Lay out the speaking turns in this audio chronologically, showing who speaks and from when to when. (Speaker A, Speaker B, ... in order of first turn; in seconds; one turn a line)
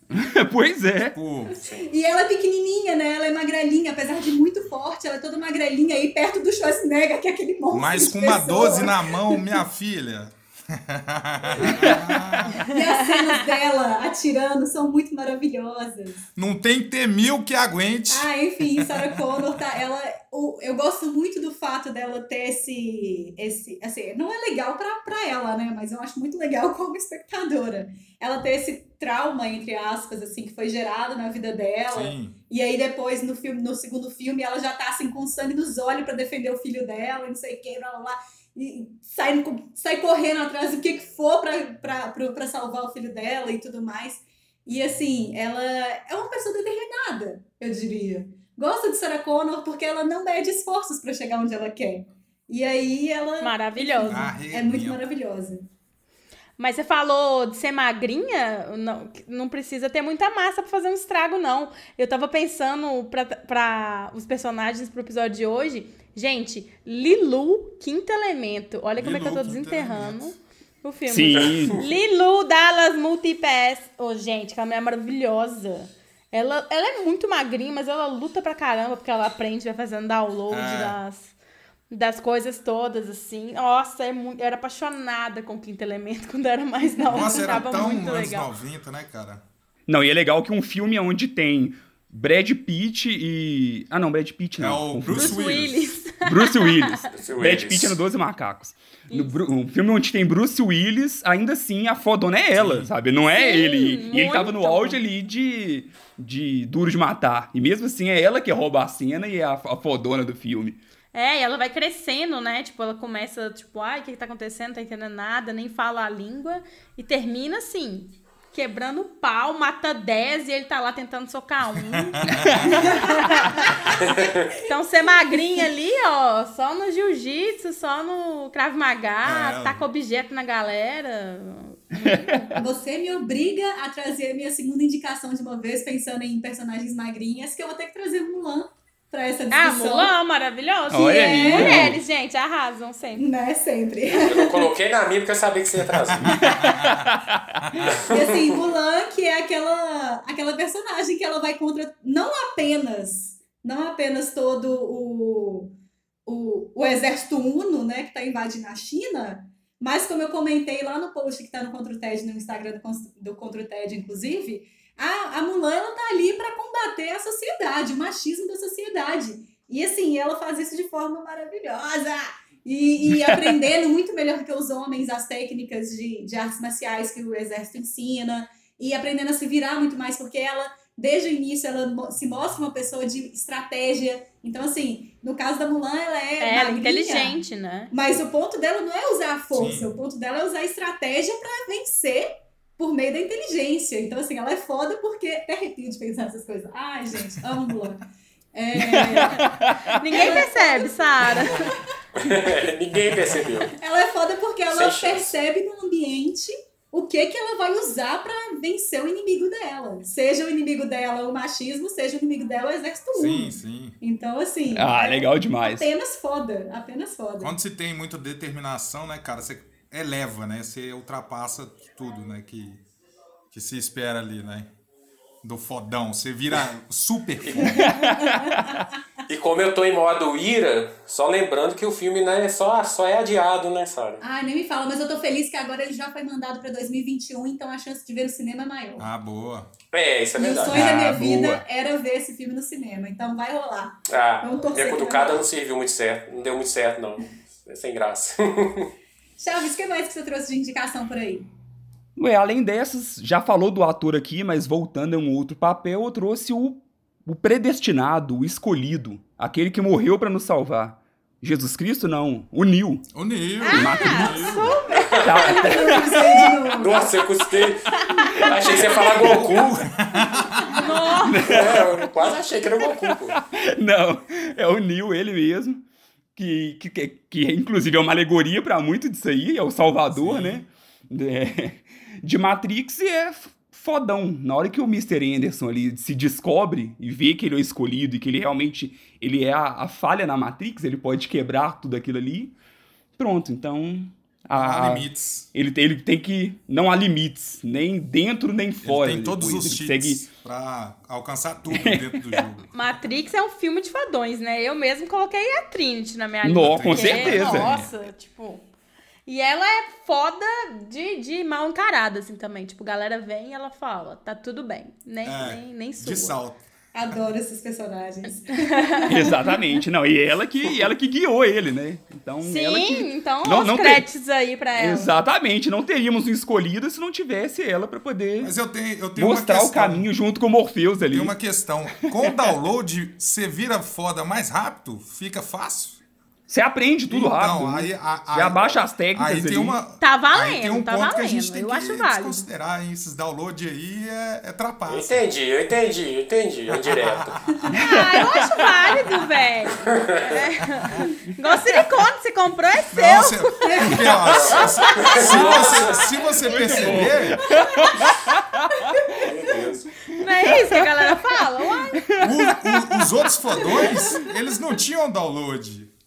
Speaker A: 0.1-1.1
Speaker B: 1.1-1.6
Speaker C: 1.5-9.5
Speaker B: 7.7-12.6
Speaker C: 11.5-16.3
Speaker D: 12.7-13.4
Speaker B: 16.4-19.6
Speaker C: 18.1-55.6
Speaker B: 31.9-32.4
Speaker D: 53.4-54.3
Speaker B: 54.0-55.0
Speaker D: 56.6-81.3
Speaker B: 69.0-70.4
Speaker A: 71.1-71.8
Speaker E: 71.3-71.8
Speaker B: 80.5-81.0
Speaker D: 81.9-88.5
Speaker B: 87.1-89.4
Speaker C: 87.1-87.5
Speaker A: 89.9-95.4
Speaker B: 94.6-95.9
Speaker D: 95.1-97.1
Speaker A: 96.2-110.8
Speaker E: 97.1-98.0
Speaker D: 99.1-99.4
Speaker B: 102.5-102.9
Speaker D: 103.3-105.0
Speaker D: 111.1-124.0
Speaker B: 121.9-122.9
Speaker A: 122.3-122.8
Speaker C: 122.8-123.1
Speaker E: 124.0-124.5
Speaker D: 124.6-132.6
Speaker B: 129.2-129.8
Speaker A: 131.9-132.6
Speaker C: 132.5-140.1
Speaker D: 139.5-143.3
Speaker A: 140.9-142.0
Speaker C: 141.1-141.9
Speaker C: 143.2-144.7
Speaker E: 144.2-146.5
Speaker B: 145.9-147.1
Speaker A: 146.2-147.8
Speaker B: 147.6-148.0
Speaker E: 147.8-148.5
Speaker C: 148.1-155.7
Speaker C: 156.2-187.4
Speaker D: 186.4-187.9
Speaker C: 187.9-201.8
Speaker B: 189.5-189.9
Speaker A: 198.7-200.0
Speaker D: 199.9-201.7
Speaker E: 202.1-203.7
Speaker C: 203.7-217.5
Speaker E: 204.7-205.3
Speaker B: 213.1-214.0
Speaker A: 214.7-215.9
Speaker B: 217.4-222.8
Speaker B: 223.5-224.7
Speaker B: 225.4-227.9
Speaker E: 227.4-227.7
Speaker A: 227.6-228.8
Speaker C: 227.7-228.8
Speaker E: 229.2-234.2
Speaker C: 234.2-239.1
Speaker B: 239.0-239.7
Speaker E: 239.9-240.9
Speaker C: 240.4-245.4
Speaker A: 240.7-241.6
Speaker E: 244.1-248.9
Speaker C: 249.4-251.5
Speaker A: 252.2-263.1
Speaker B: 263.1-264.9
Speaker D: 263.6-265.2
Speaker A: 263.7-264.6
Speaker E: 265.1-265.7
Speaker A: 265.2-266.7
Speaker C: 265.4-267.1
Speaker E: 266.8-269.9
Speaker D: 268.0-268.8
Speaker A: 268.2-268.5
Speaker C: 268.2-269.0
Speaker B: 269.2-270.9
Speaker D: 270.7-271.7
Speaker A: 271.2-272.1
Speaker E: 271.4-273.4
Speaker A: 272.9-275.8
Speaker A: 276.4-292.5
Speaker B: 280.1-280.6
Speaker A: 293.1-300.2
Speaker B: 294.5-295.5
Speaker B: 298.8-302.7
Speaker A: 301.7-302.4
Speaker D: 302.7-308.7
Speaker A: 306.4-307.9
Speaker B: 306.6-307.9
Speaker D: 309.2-316.4
Speaker B: 315.2-317.2
Speaker C: 316.9-319.6
Speaker D: 318.6-319.2
Speaker A: 319.1-324.1
Speaker D: 322.4-325.1
Speaker A: 324.8-328.5
Speaker B: 328.4-330.1
Speaker A: 329.1-331.3
Speaker B: 331.0-336.0
Speaker A: 332.0-332.5
Speaker A: 336.5-339.8
Speaker B: 337.1-345.2
Speaker D: 340.0-342.4
Speaker E: 344.9-347.4
Speaker B: 346.7-347.7
Speaker A: 347.7-348.8
Speaker D: 347.8-354.1
Speaker E: 349.8-350.2
Speaker B: 352.9-357.4
Speaker C: 353.6-354.2
Speaker E: 354.2-356.3
Speaker D: 355.0-355.9
Speaker C: 355.3-355.8
Speaker A: 356.4-359.2
Speaker C: 357.4-357.9
Speaker C: 358.8-359.3
Speaker E: 359.1-359.9
Speaker A: 360.1-363.2
Speaker D: 360.2-362.3
Speaker B: 362.2-365.9
Speaker C: 363.6-364.2
Speaker A: 363.8-364.2